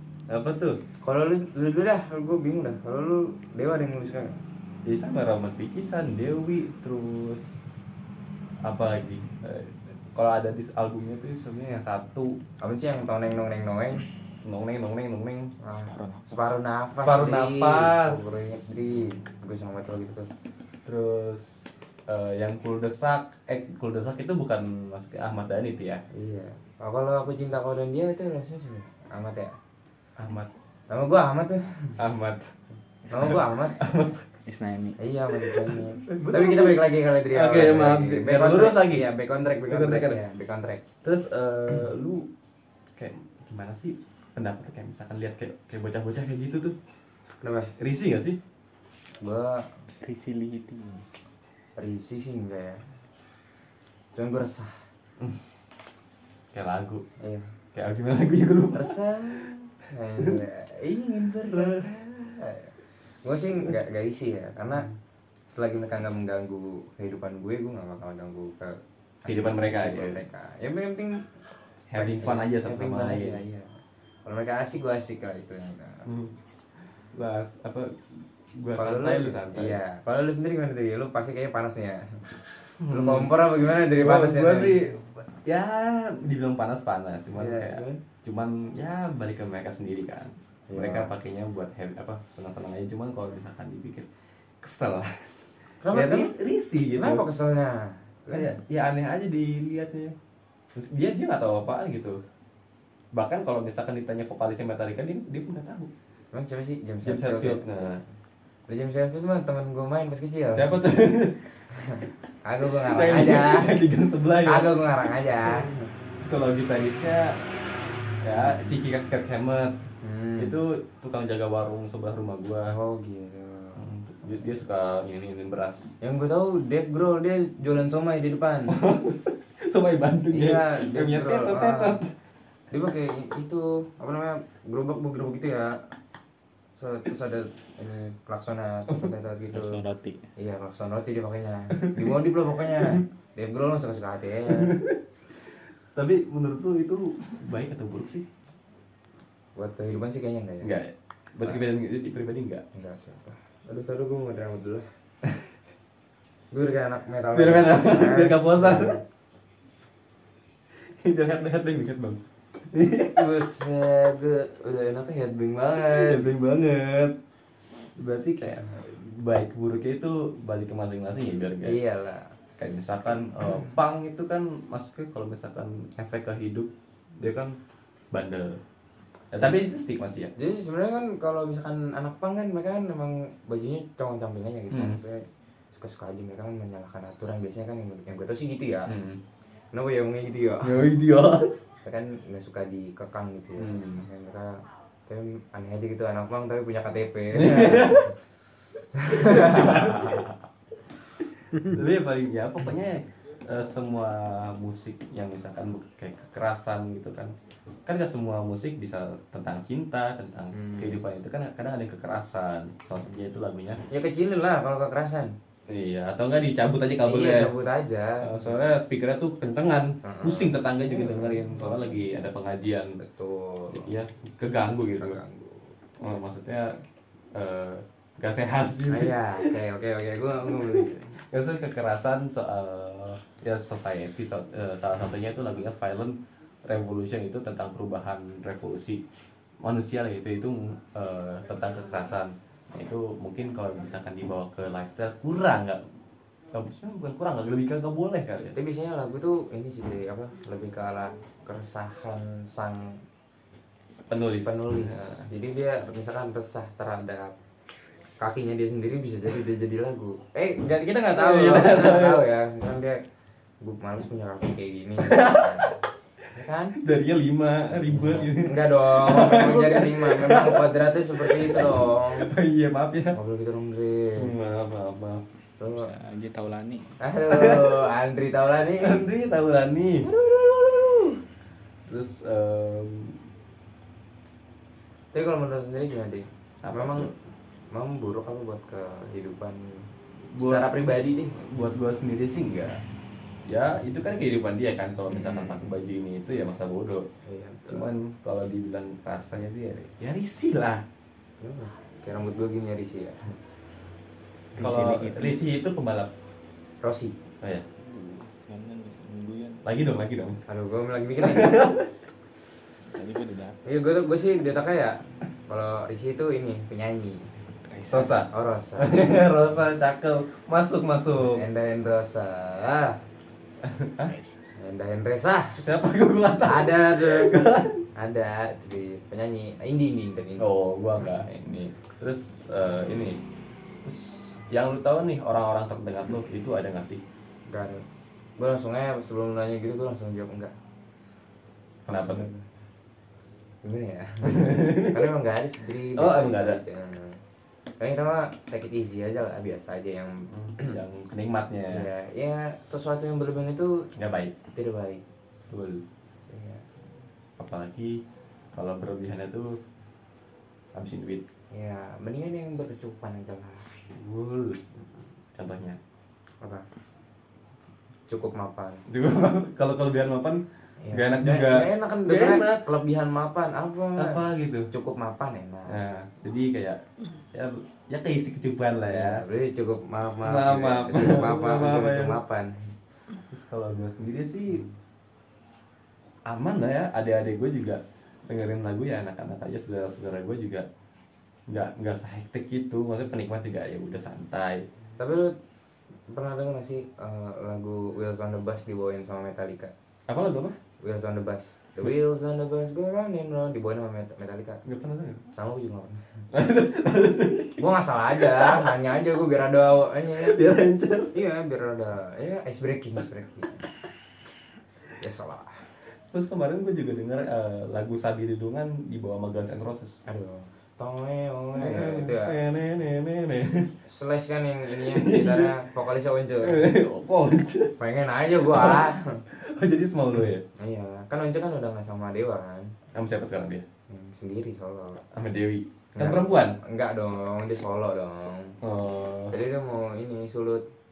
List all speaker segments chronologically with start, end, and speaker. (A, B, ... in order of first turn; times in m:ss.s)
0:00.3-0:00.8 A
0:01.0-0:04.4 B
0:04.8-0:07.5 A
0:08.6-0:12.4 A
0:12.6-0:14.0 B
0:14.4-0:15.5 A
0:15.6-0:20.3 B
0:15.8-0:16.6 C
0:17.0-0:18.6 A
0:20.8-0:26.0 A
0:26.1-0:29.5 B
0:30.2-0:30.5 A
0:30.9-0:32.0 B
0:32.0-0:32.5 A
0:33.1-0:33.4 C
0:33.1-0:33.8 B
0:33.2-0:34.2 A
0:34.4-0:35.0 C
0:35.0-0:40.8 B
0:35.7-0:39.1 A
0:39.7-0:40.2 A
0:41.0-0:42.3 A
0:43.0-0:46.8 A
0:47.4-0:47.7 B
0:47.8-0:48.4 A
0:49.2-0:49.7 B
0:50.0-0:51.0 C
0:51.8-0:52.8 B
0:54.1-0:54.8 B
0:56.5-0:57.0 A
0:57.2-0:57.5 B
0:57.7-0:59.0 A
0:58.7-1:04.9 B
1:01.5-1:01.8 A
1:05.5-1:11.3 B
1:09.2-1:10.2 A
1:11.9-1:13.4 A
1:11.9-1:16.1 B
1:16.0-1:16.3 A
1:17.1-1:19.8 A
1:18.8-1:22.3 B
1:22.8-1:23.3 A
1:22.9-1:24.8 B
1:23.9-1:34.1 A
1:27.3-1:28.0 B
1:30.7-1:31.1 B
1:34.6-1:35.4 A
1:35.8-1:36.3 B
1:35.9-1:37.2 A
1:36.9-1:38.5 B
1:38.3-1:40.1 A
1:40.7-1:42.2 A
1:43.1-1:45.9 A
1:46.3-1:48.1 B
1:47.0-1:48.0 A
1:48.7-1:50.8 B
1:50.5-1:51.4 A
1:51.7-1:53.7 B
1:52.8-1:55.7 A
1:54.4-1:55.9 B
1:56.2-1:57.4 A
1:58.2-1:59.8 A
1:58.3-1:58.8 B
2:00.0-2:00.6 B
2:00.4-2:02.7 A
2:02.7-2:03.9 B
2:03.8-2:05.9 A
2:06.0-2:08.8 B
2:08.7-2:12.1 A
2:10.3-2:12.0 B
2:12.7-2:15.8 B
2:16.7-2:19.8 B
2:19.5-2:20.2 C
2:20.4-2:24.7 B
2:21.7-2:22.1 A
2:24.5-2:25.0 A
2:25.9-2:28.2 A
2:29.6-2:30.7 B
2:30.6-2:32.6 A
2:32.7-2:34.8 B
2:36.5-2:39.0 B
2:37.3-2:39.0 A
2:41.0-2:43.2 A
2:43.2-2:46.3 B
2:45.8-2:47.2 A
2:48.0-2:51.8 A
2:51.6-2:52.3 B
2:52.6-2:57.6 A
2:58.1-2:58.6 A
2:59.3-3:00.3 A
3:00.4-3:08.9 B
3:04.7-3:05.0 A
3:08.9-3:09.2 A
3:09.7-3:10.9 B
3:10.6-3:11.5 A
3:11.8-3:18.1 B
3:13.6-3:14.0 A
3:17.3-3:18.1 A
3:18.9-3:20.3 B
3:19.0-3:20.4 A
3:21.4-3:27.3 A
3:27.8-3:33.8 A
3:30.5-3:31.0 B
3:33.9-3:35.3 B
3:35.7-3:37.5 A
3:37.0-3:38.6 B
3:38.2-3:43.0 A
3:40.0-3:42.0 B
3:43.0-3:43.9 B
3:43.7-3:45.2 A
3:44.9-3:45.7 B
3:46.0-3:46.8 A
3:47.3-3:49.6 A
3:48.9-3:51.2 B
3:50.7-3:59.0 A
3:59.6-4:05.8 A
4:06.5-4:08.6 A
4:08.5-4:13.0 B
4:14.1-4:15.3 A
4:14.3-4:17.4 B
4:18.2-4:23.0 B
4:21.1-4:22.3 A
4:23.6-4:25.7 B
4:25.0-4:25.8 A
4:26.3-4:26.8 B
4:26.8-4:33.2 A
4:27.8-4:32.3 B
4:33.1-4:34.3 B
4:34.2-4:35.2 A
4:35.6-4:35.9 B
4:35.7-4:36.8 C
4:37.0-4:39.0 B
4:37.3-4:37.8 A
4:38.8-4:40.1 A
4:40.0-4:41.2 B
4:41.9-4:43.2 A
4:45.1-4:47.1 B
4:46.6-4:47.1 A
4:47.7-4:51.4 B
4:50.3-4:50.7 A
4:51.4-4:52.8 A
4:53.4-4:57.1 A
4:55.1-4:55.7 B
4:57.2-4:57.9 B
4:57.7-5:00.8 A
5:01.4-5:03.4 B
5:04.5-5:05.4 C
5:04.6-5:06.1 A
5:06.8-5:07.2 B
5:07.8-5:09.6 C
5:09.6-5:10.4 A
5:10.5-5:11.7 B
5:11.2-5:11.9 A
5:12.9-5:13.6 C
5:13.6-5:17.3 B
5:17.6-5:18.2 C
5:17.9-5:21.4 A
5:18.0-5:19.0 B
5:21.2-5:23.0 B
5:23.6-5:24.1 A
5:24.0-5:24.4 C
5:24.6-5:25.6 B
5:25.6-5:27.8 A
5:26.4-5:27.4 B
5:27.9-5:30.5 B
5:30.4-5:33.2 A
5:33.8-5:37.0 A
5:37.5-5:37.8 B
5:38.4-5:40.5 B
5:41.8-5:42.3 A
5:41.9-5:42.5 B
5:43.6-5:47.2 B
5:44.2-5:45.1 A
5:45.9-5:46.6 A
5:47.8-5:50.8 B
5:50.3-5:51.9 A
5:51.7-5:53.9 B
5:54.0-5:54.4 A
5:54.5-5:55.0 B
5:55.5-5:55.8 A
5:56.3-5:56.7 B
5:57.4-5:58.0 A
5:58.5-5:59.6 A
6:00.7-6:01.2 A
6:01.5-6:03.7 B
6:03.9-6:04.6 A
6:05.3-6:05.8 A
6:08.1-6:08.8 B
6:08.9-6:12.6 A
6:10.8-6:15.8 B
6:14.0-6:14.7 A
6:15.7-6:16.8 A
6:17.3-6:19.2 A
6:18.8-6:22.7 B
6:20.2-6:22.2 A
6:23.3-6:24.6 A
6:26.3-6:30.7 A
6:31.5-6:34.6 A
6:35.0-6:35.3 B
6:36.1-6:39.7 B
6:40.1-6:40.6 A
6:40.8-6:44.6 B
6:44.6-6:45.2 A
6:45.3-6:46.2 B
6:46.3-6:47.6 A
6:47.6-6:50.4 B
6:48.2-6:48.6 A
6:50.1-6:51.2 A
6:51.1-6:53.6 B
6:55.0-6:55.6 B
6:56.1-7:00.0 A
7:00.0-7:02.4 B
7:01.5-7:03.8 A
7:03.8-7:06.6 B
7:04.7-7:05.5 A
7:06.4-7:07.8 A
7:07.8-7:09.2 B
7:08.4-7:10.4 A
7:10.6-7:12.7 B
7:12.9-7:13.6 A
7:13.9-7:15.0 B
7:15.1-7:16.6 A
7:15.9-7:18.6 B
7:18.6-7:19.4 A
7:19.3-7:20.6 B